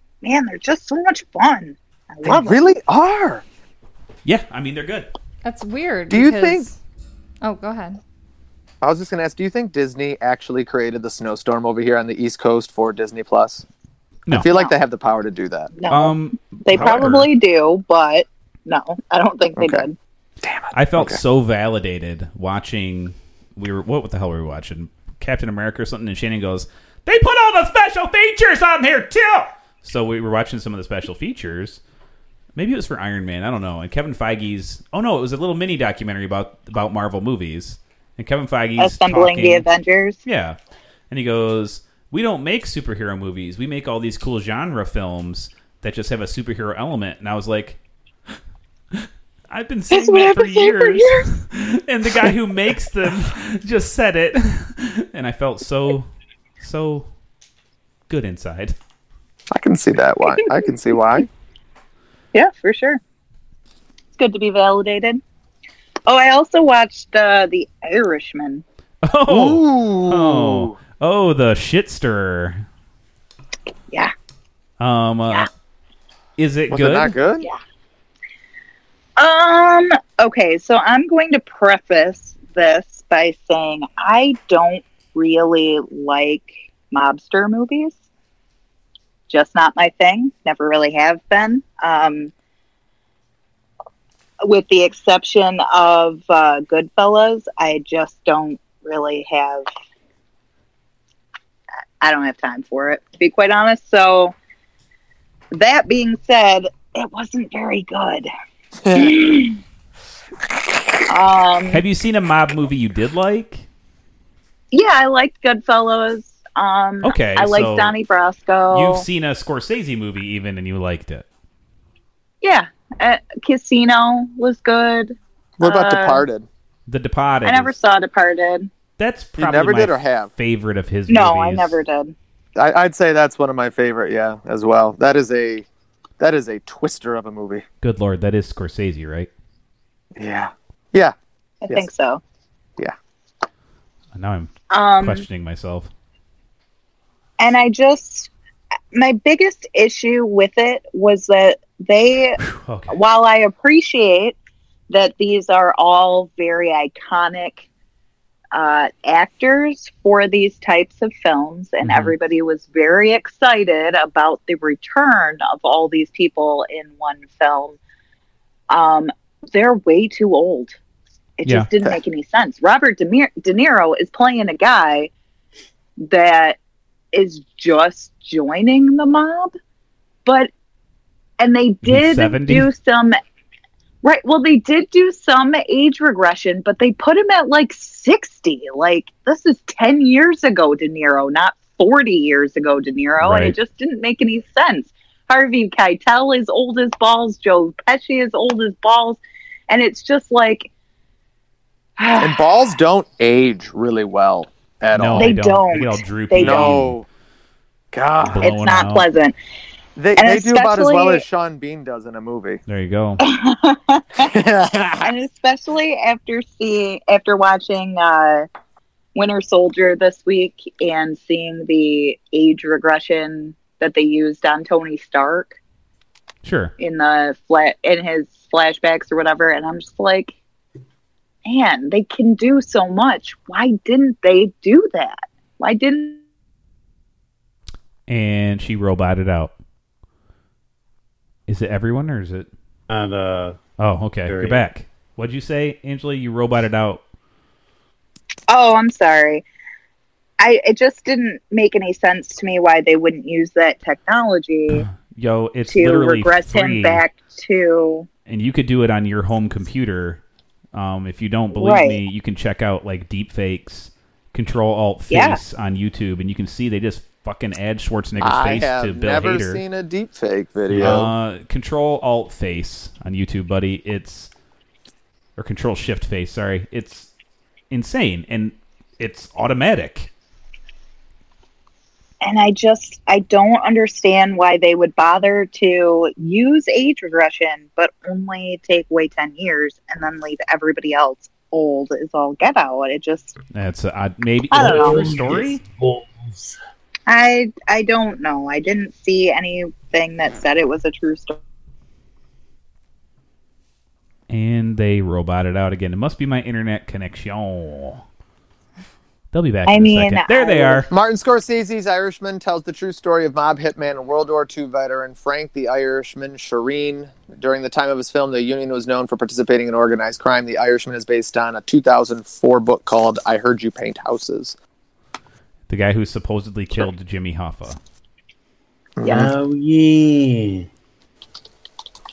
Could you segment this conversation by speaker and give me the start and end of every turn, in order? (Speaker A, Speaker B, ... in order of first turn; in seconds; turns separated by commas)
Speaker A: 0.2-2.7, Speaker B: 2.2-3.4, Speaker C: 4.2-5.1, Speaker D: 5.4-6.8, Speaker B: 6.1-6.7, Speaker D: 7.4-8.0, Speaker B: 8.8-13.6, Speaker B: 14.3-15.7, Speaker A: 14.5-14.7, Speaker A: 15.8-19.9, Speaker C: 15.9-17.3, Speaker B: 19.6-19.8, Speaker B: 20.4-21.2, Speaker C: 20.7-31.8, Speaker C: 32.5-39.7, Speaker A: 38.8-40.2, Speaker C: 40.2-40.6, Speaker C: 41.1-47.8, Speaker C: 48.9-56.1, Speaker A: 49.9-51.2, Speaker C: 56.6-57.1, Speaker C: 58.1-58.8, Speaker B: 59.5-61.3, Speaker A: 62.3-63.0, Speaker A: 64.2-65.2, Speaker A: 66.1-68.6, Speaker C: 69.0-72.6, Speaker B: 69.3-70.8, Speaker C: 74.8-75.5, Speaker C: 76.4-77.1, Speaker B: 76.7-77.5, Speaker A: 79.2-88.0, Speaker A: 89.3-92.3, Speaker A: 94.4-99.7, Speaker A: 102.0-104.3, Speaker A: 105.5-108.3, Speaker B: 108.8-109.2, Speaker A: 108.9-109.6, Speaker A: 111.1-111.8, Speaker C: 111.7-113.7, Speaker A: 114.7-119.0, Speaker C: 117.0-117.9, Speaker C: 118.7-121.2, Speaker A: 122.4-126.2, Speaker B: 125.6-126.5, Speaker C: 126.9-127.8, Speaker A: 127.4-128.7, Speaker C: 129.0-131.8, Speaker B: 129.3-130.3, Speaker A: 131.1-132.1, Speaker B: 132.6-135.7, Speaker B: 136.2-137.6, Speaker C: 137.8-139.3, Speaker B: 140.2-141.1, Speaker A: 141.6-142.2, Speaker C: 144.1-145.9, Speaker A: 144.7-145.2, Speaker A: 147.4-148.3, Speaker A: 148.9-152.4, Speaker C: 152.4-152.9, Speaker A: 152.9-154.4, Speaker A: 154.9-157.6, Speaker A: 158.5-167.8, Speaker C: 161.8-162.1, Speaker A: 168.7-170.7, Speaker A: 171.4-175.1, Speaker A: 176.0-176.6, Speaker A: 177.1-179.5, Speaker A: 180.2-180.5, Speaker A: 181.4-183.2, Speaker C: 181.8-182.7, Speaker A: 184.0-200.7, Speaker C: 193.2-193.5, Speaker A: 202.0-202.4, Speaker B: 202.2-205.3, Speaker C: 204.9-206.9, Speaker A: 205.2-206.8, Speaker B: 206.4-207.1, Speaker B: 207.9-208.5, Speaker C: 208.2-209.1, Speaker A: 208.4-209.3, Speaker B: 209.9-212.6, Speaker A: 210.2-211.2, Speaker C: 212.7-213.2, Speaker A: 213.2-214.3, Speaker B: 214.2-215.1, Speaker A: 215.0-218.5, Speaker A: 219.1-225.6, Speaker C: 226.4-226.7, Speaker A: 226.8-230.3, Speaker A: 231.4-236.2, Speaker C: 238.1-239.5, Speaker C: 241.5-242.5, Speaker E: 242.9-243.6, Speaker C: 243.8-247.0, Speaker E: 244.3-244.6, Speaker A: 248.5-249.4, Speaker A: 250.4-254.9, Speaker C: 254.8-257.0, Speaker A: 255.7-258.1, Speaker C: 258.3-260.2, Speaker C: 260.7-269.6, Speaker A: 261.5-262.0, Speaker A: 265.1-265.4, Speaker B: 268.2-271.1, Speaker E: 270.7-271.1, Speaker C: 270.8-274.3, Speaker C: 275.4-277.1, Speaker C: 277.7-280.1, Speaker A: 282.2-293.4, Speaker C: 293.5-295.6, Speaker A: 294.5-295.0, Speaker E: 294.5-296.6, Speaker A: 297.1-301.4, Speaker C: 304.3-308.0, Speaker C: 309.3-310.9, Speaker A: 309.7-310.9, Speaker B: 310.9-324.5, Speaker C: 325.7-327.8, Speaker B: 329.0-329.3, Speaker E: 329.0-330.7